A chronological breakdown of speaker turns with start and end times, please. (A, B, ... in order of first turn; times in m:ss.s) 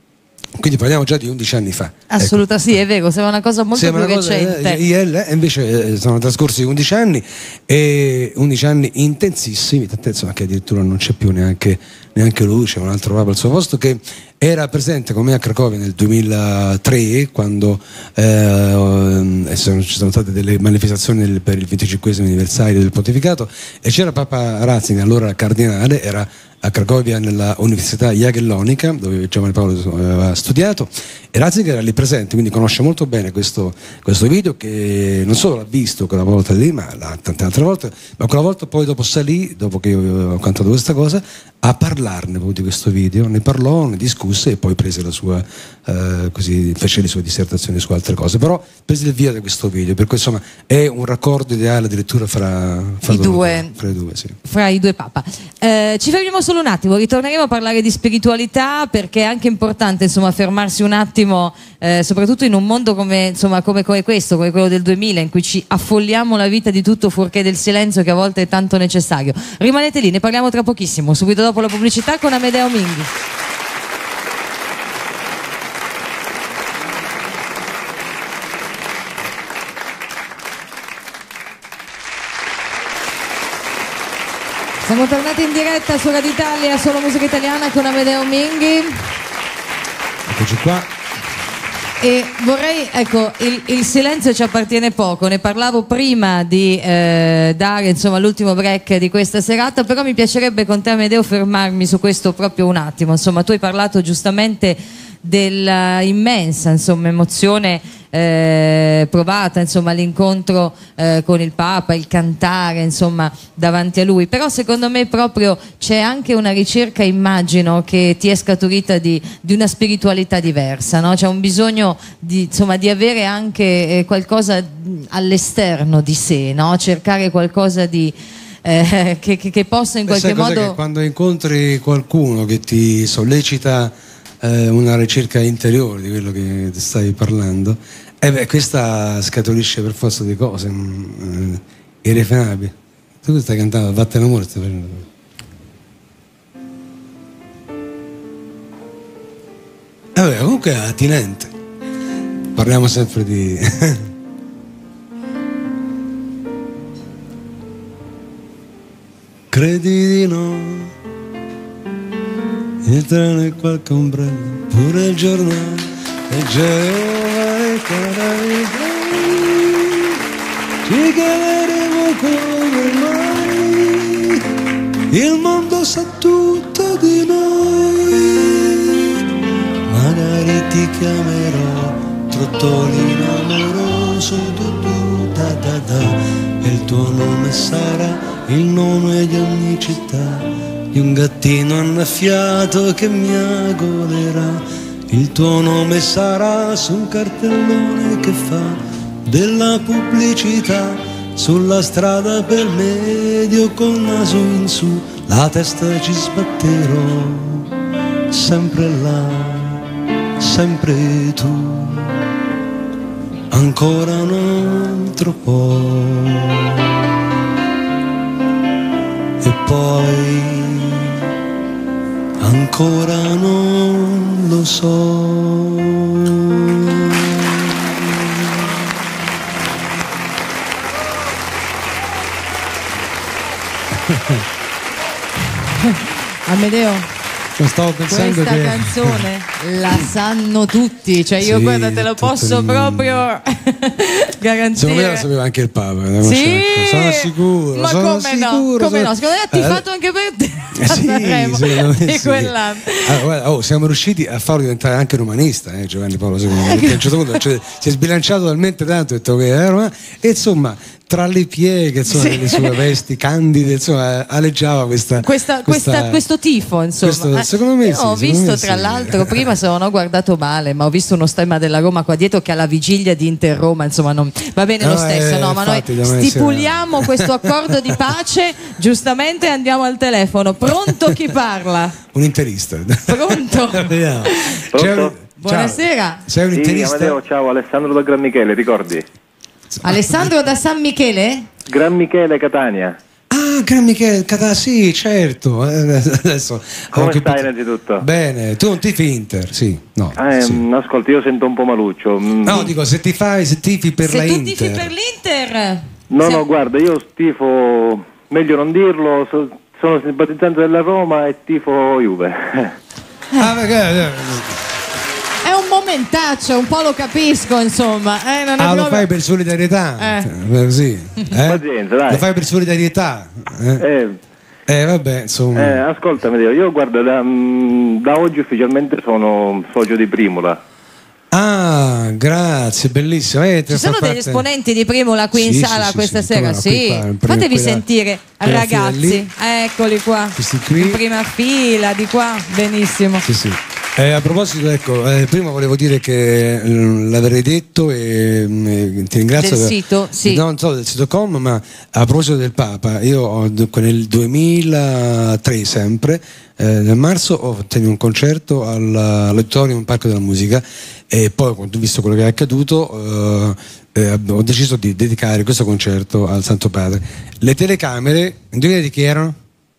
0:00.6-0:02.4 A
0:02.1-0:04.8 B
0:03.8-0:54.4 A
0:53.1-0:53.8 B
0:54.4-1:13.1 B
1:24.8-1:29.1 B
1:30.3-1:30.9 A
1:32.0-2:10.8 B
2:10.1-2:25.1 A
2:30.2-2:31.5 A
2:32.6-2:34.1 A
2:39.5-2:40.9 A
2:42.8-2:50.2 A
2:50.8-2:54.4 A
2:55.1-2:59.2 A
2:59.8-3:27.7 A
3:28.3-3:29.8 A
3:30.4-3:32.2 A
3:33.5-3:37.0 A
3:39.4-3:41.2 A
3:42.4-3:48.6 A
3:53.9-3:54.4 A
3:55.9-3:57.1 B
3:57.6-3:59.3 A
3:58.1-4:05.3 B
4:01.4-4:03.3 A
4:04.7-4:09.8 A
4:06.2-4:13.2 B
4:10.8-4:26.2 A
4:16.6-4:17.2 B
4:22.1-4:22.8 B
4:25.2-4:42.0 B
4:27.0-4:29.5 A
4:34.8-4:38.0 A
4:40.6-4:41.3 A
4:42.1-4:47.2 A
4:43.1-4:44.6 B
4:44.7-4:45.2 C
4:45.4-4:46.2 B
4:46.5-4:49.0 C
4:49.7-4:50.3 A
4:49.8-4:51.5 B
4:51.7-4:53.0 C
4:53.3-5:00.6 A
4:56.9-4:58.0 C
5:00.2-5:02.7 C
5:02.4-5:04.9 A
5:04.0-5:06.4 B
5:06.1-5:12.7 C
5:13.4-5:14.6 A
5:15.4-5:19.1 B
5:18.6-5:23.8 A
5:20.0-5:20.3 B
5:21.3-5:22.2 C
5:23.8-5:24.2 C
5:24.7-5:25.8 A
5:25.6-5:30.6 C
5:31.3-5:34.5 A
5:33.7-5:43.2 B
5:35.3-5:37.8 A
5:38.4-5:39.3 A
5:40.4-5:41.0 A
5:43.2-6:09.4 A
5:49.4-5:50.4 B